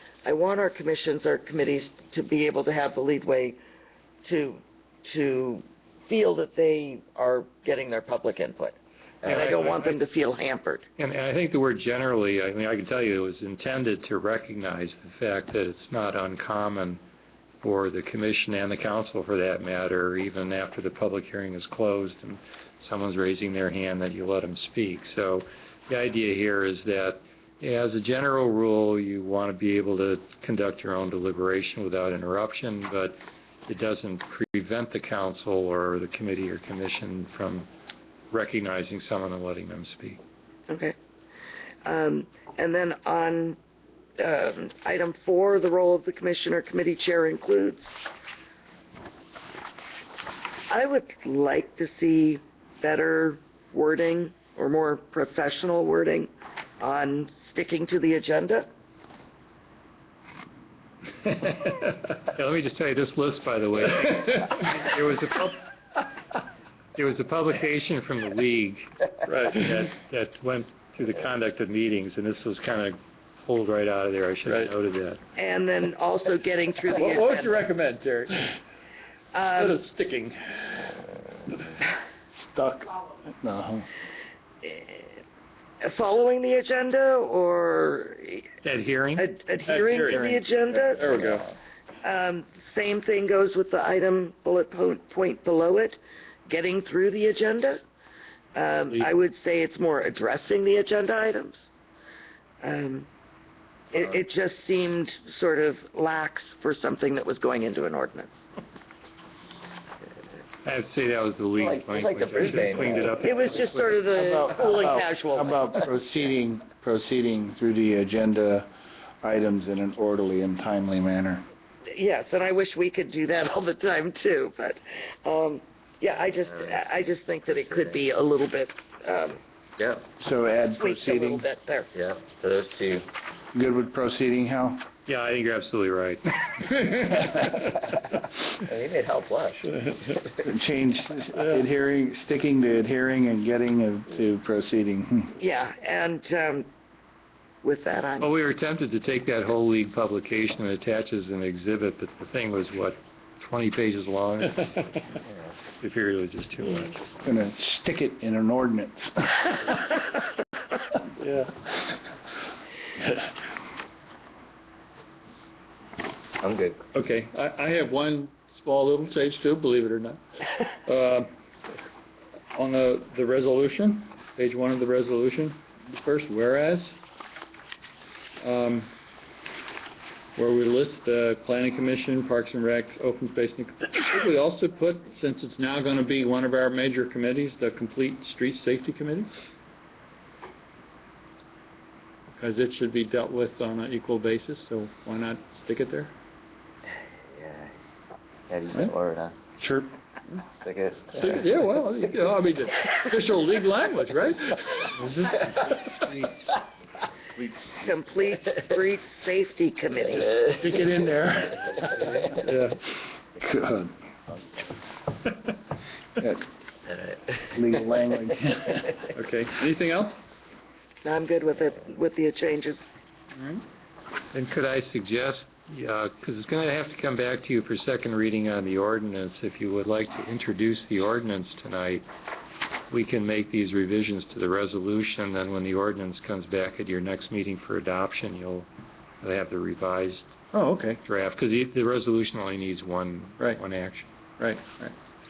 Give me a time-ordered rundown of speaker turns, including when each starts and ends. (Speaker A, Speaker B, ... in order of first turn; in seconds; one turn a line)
Speaker A: 0.2-3.6
Speaker A: 4.2-10.9
Speaker B: 9.3-10.0
Speaker B: 11.0-17.0
Speaker B: 17.6-37.7
Speaker B: 38.3-40.2
Speaker A: 40.7-41.0
Speaker A: 41.9-43.6
Speaker A: 44.2-47.9
Speaker A: 50.7-58.7
Speaker B: 61.2-65.7
Speaker B: 67.0-75.2
Speaker C: 69.2-69.7
Speaker C: 74.5-74.7
Speaker A: 75.4-77.6
Speaker C: 77.0-78.6
Speaker A: 79.3-79.8
Speaker C: 79.6-81.0
Speaker D: 82.5-83.9
Speaker A: 84.6-85.2
Speaker A: 85.8-88.5
Speaker B: 88.6-89.3
Speaker A: 89.2-91.3
Speaker C: 89.7-91.5
Speaker A: 92.0-97.8
Speaker A: 98.5-101.7
Speaker A: 102.6-103.1
Speaker A: 103.9-108.3
Speaker B: 110.6-114.0
Speaker E: 111.6-113.2
Speaker A: 113.2-115.8
Speaker D: 114.2-118.7
Speaker D: 119.2-121.5
Speaker A: 121.9-129.4
Speaker E: 127.6-127.9
Speaker E: 129.8-130.0
Speaker D: 130.2-131.4
Speaker A: 130.8-131.9
Speaker E: 131.9-133.1
Speaker D: 133.5-134.9
Speaker B: 135.1-136.8
Speaker E: 137.6-140.3
Speaker D: 140.3-145.3
Speaker A: 145.4-146.7
Speaker A: 147.6-148.3
Speaker B: 148.2-155.2
Speaker B: 155.8-157.0
Speaker D: 157.2-160.0
Speaker C: 161.2-161.5
Speaker E: 166.4-166.8
Speaker C: 166.9-170.2
Speaker C: 170.8-171.3
Speaker C: 172.5-176.9
Speaker C: 178.4-178.9
Speaker C: 180.4-189.3
Speaker C: 192.4-196.1
Speaker E: 197.3-197.7
Speaker E: 198.5-199.4
Speaker D: 199.6-199.9
Speaker E: 200.6-201.6
Speaker C: 201.1-206.3
Speaker A: 207.7-210.5
Speaker C: 210.5-212.8
Speaker D: 213.4-213.9
Speaker D: 216.2-216.5
Speaker D: 217.5-219.0
Speaker C: 219.1-220.2
Speaker A: 221.0-222.8
Speaker C: 223.3-223.6
Speaker B: 224.3-232.1
Speaker B: 232.9-238.7
Speaker B: 239.2-240.3
Speaker C: 240.5-241.0
Speaker B: 241.1-244.1
Speaker C: 244.4-244.9